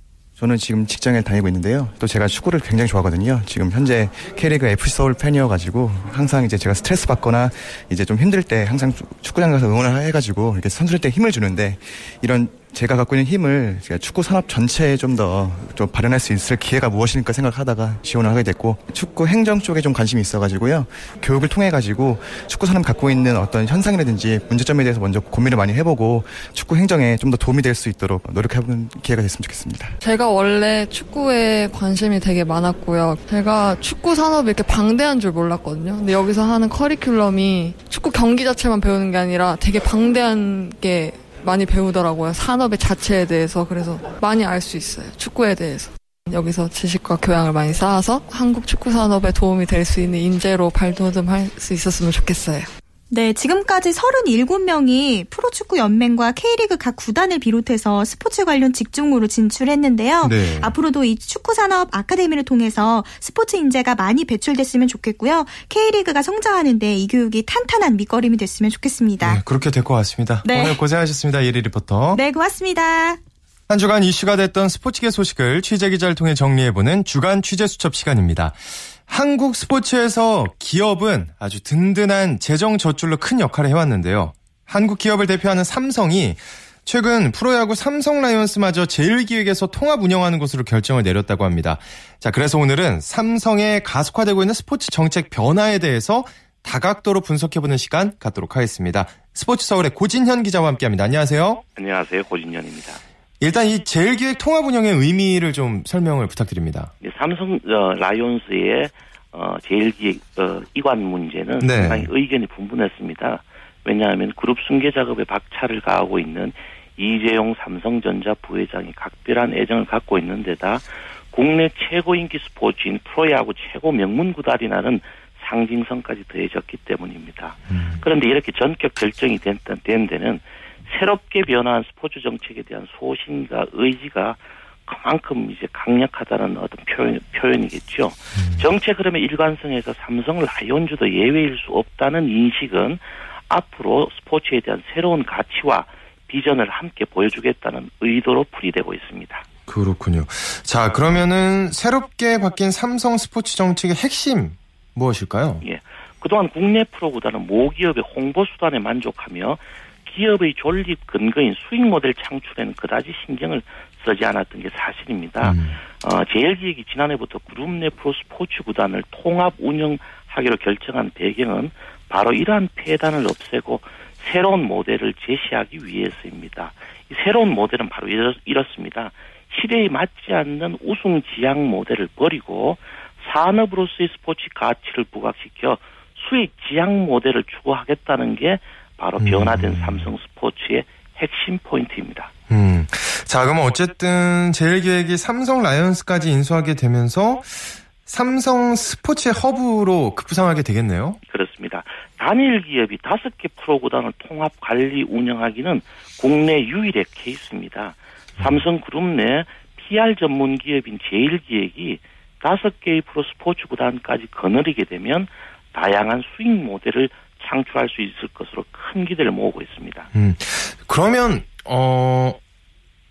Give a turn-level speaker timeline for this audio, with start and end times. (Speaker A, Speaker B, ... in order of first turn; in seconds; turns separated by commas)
Speaker A: 0.4-30.0, Speaker B: 30.0-52.7, Speaker C: 53.1-69.4, Speaker D: 60.2-60.8, Speaker D: 69.2-72.2, Speaker C: 70.4-70.8, Speaker C: 72.1-73.2, Speaker D: 73.7-101.6, Speaker E: 101.7-103.0, Speaker D: 103.4-106.9, Speaker E: 107.0-149.4, Speaker D: 111.6-112.1, Speaker D: 127.7-128.0, Speaker D: 138.4-138.7, Speaker D: 149.7-155.6, Speaker E: 155.6-192.3, Speaker D: 165.4-165.8, Speaker D: 189.2-190.1, Speaker D: 192.5-201.2, Speaker E: 201.2-220.1, Speaker D: 208.4-208.6, Speaker D: 220.1-222.4